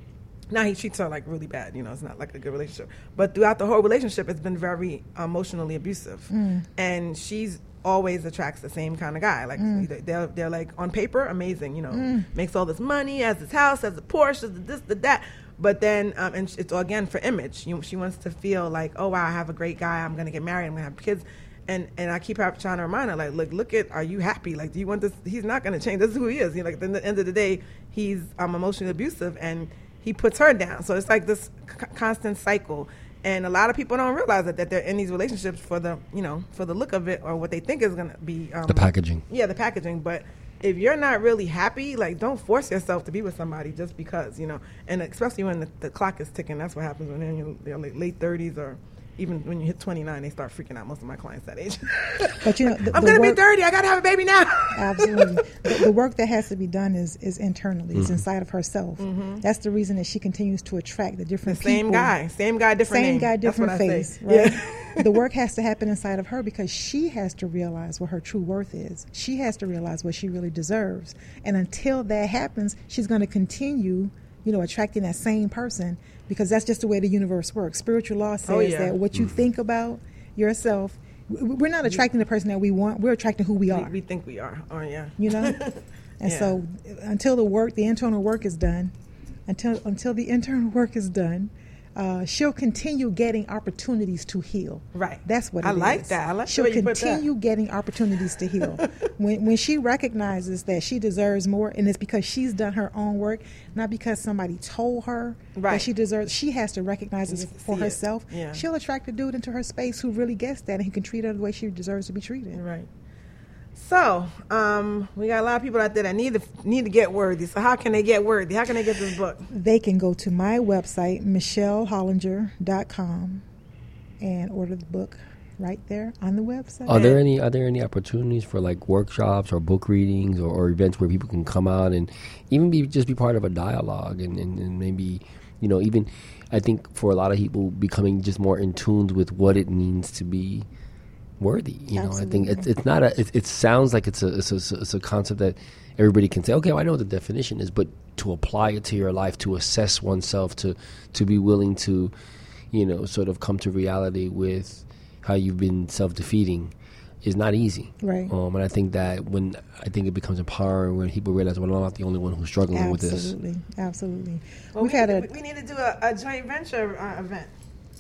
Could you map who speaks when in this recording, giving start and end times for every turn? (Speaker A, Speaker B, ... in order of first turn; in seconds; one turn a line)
Speaker A: 0.5-55.8
Speaker B: 6.3-6.7
Speaker B: 9.6-9.9
Speaker B: 11.9-12.3
Speaker C: 38.7-39.2
Speaker B: 52.4-53.4
Speaker B: 54.7-62.1
Speaker C: 58.0-58.2
Speaker A: 59.0-59.4
Speaker A: 61.5-65.2
Speaker B: 62.9-84.0
Speaker A: 78.5-79.0
Speaker A: 83.7-86.6
Speaker B: 85.2-85.6
Speaker B: 86.2-88.9
Speaker B: 89.5-112.6
Speaker A: 94.9-97.2
Speaker A: 98.6-98.9
Speaker A: 105.6-105.9
Speaker A: 107.3-108.6
Speaker A: 112.5-112.9
Speaker A: 113.8-119.5
Speaker B: 119.5-123.4
Speaker B: 124.2-127.1
Speaker C: 126.9-140.7
Speaker A: 126.9-127.2
Speaker C: 141.4-152.1
Speaker B: 141.9-142.7
Speaker C: 152.7-163.3
Speaker B: 158.0-158.3
Speaker B: 162.7-165.3
Speaker A: 164.8-167.5